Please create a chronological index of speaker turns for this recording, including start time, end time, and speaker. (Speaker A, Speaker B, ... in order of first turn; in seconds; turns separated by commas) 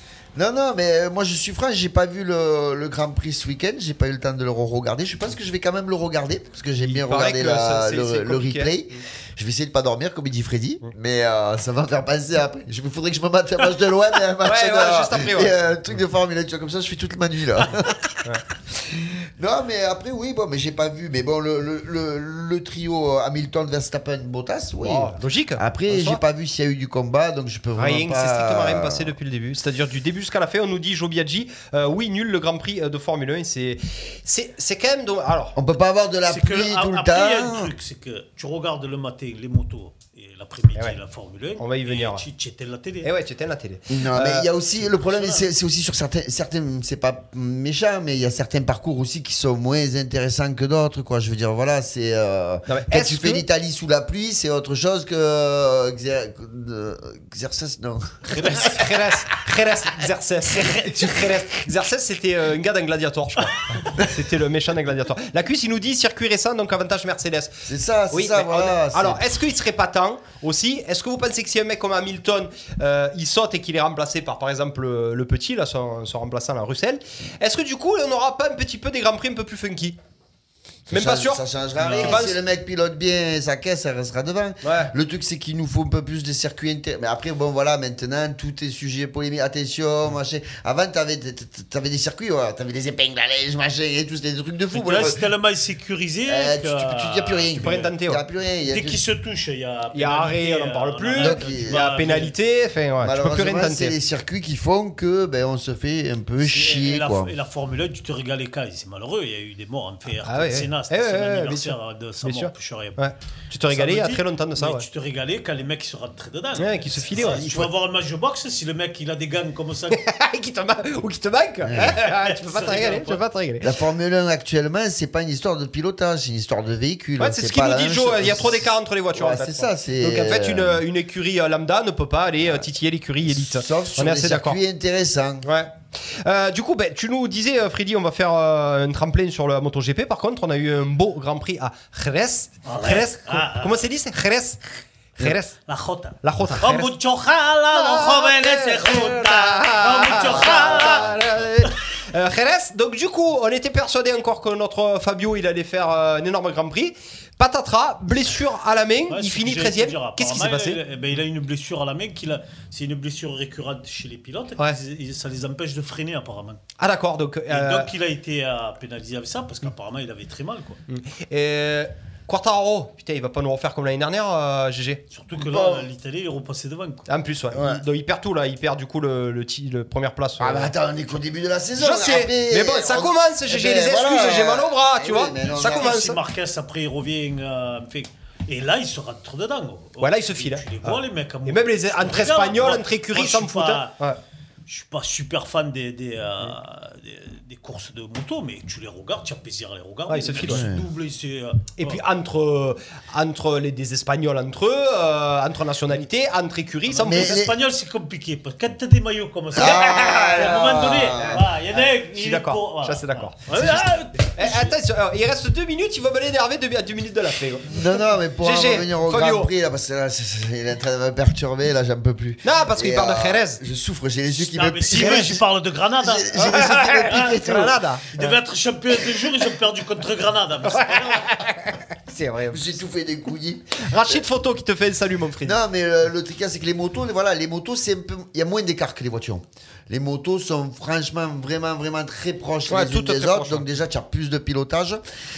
Speaker A: 0.3-17.9, Speaker B: 6.8-9.0, Speaker B: 14.4-15.6, Speaker A: 18.7-29.1, Speaker B: 24.8-26.2, Speaker B: 27.8-35.6, Speaker A: 35.5-37.7, Speaker C: 36.2-43.1, Speaker B: 41.6-42.2, Speaker B: 43.0-44.5, Speaker A: 43.9-58.9, Speaker C: 44.9-45.5, Speaker B: 52.7-53.4, Speaker B: 58.3-80.0, Speaker A: 67.7-69.2, Speaker B: 80.9-82.4, Speaker A: 80.9-95.2, Speaker C: 81.8-82.2, Speaker B: 84.6-84.9, Speaker C: 94.7-97.9, Speaker A: 96.2-99.0, Speaker B: 97.6-98.2, Speaker C: 98.7-102.3, Speaker B: 99.9-103.9, Speaker A: 101.2-101.8, Speaker A: 103.0-107.3, Speaker C: 106.4-113.0, Speaker B: 110.2-114.8, Speaker C: 113.7-120.0, Speaker B: 116.6-117.7, Speaker B: 119.9-123.7, Speaker A: 121.6-122.0, Speaker C: 121.7-123.2, Speaker A: 123.6-130.8, Speaker B: 127.2-134.6, Speaker A: 133.2-135.5, Speaker B: 135.4-144.6, Speaker C: 142.6-143.9, Speaker B: 145.2-145.6, Speaker C: 145.7-151.7, Speaker B: 146.2-146.9, Speaker B: 147.7-160.8, Speaker A: 150.4-151.0, Speaker C: 159.1-166.6, Speaker B: 166.8-167.9, Speaker C: 167.5-170.8, Speaker B: 170.9-175.0, Speaker C: 175.1-177.1, Speaker A: 175.4-175.9, Speaker B: 177.1-180.7, Speaker A: 177.5-177.8, Speaker A: 180.4-185.9, Speaker B: 181.8-186.2, Speaker C: 185.5-193.9, Speaker B: 190.0-194.2, Speaker C: 194.7-202.0, Speaker B: 200.1-200.7, Speaker A: 200.4-200.8, Speaker B: 201.8-207.4, Speaker C: 206.9-214.7, Speaker A: 207.1-207.5, Speaker A: 209.5-211.5, Speaker B: 212.1-217.8, Speaker A: 217.7-225.4, Speaker B: 218.4-219.5, Speaker B: 222.4-223.6, Speaker C: 224.3-226.3, Speaker A: 226.0-227.8, Speaker B: 226.3-228.3, Speaker C: 227.1-227.4, Speaker C: 228.1-231.3, Speaker B: 230.7-232.8, Speaker A: 232.5-234.2, Speaker B: 233.8-235.6, Speaker A: 235.4-245.0, Speaker B: 242.7-243.7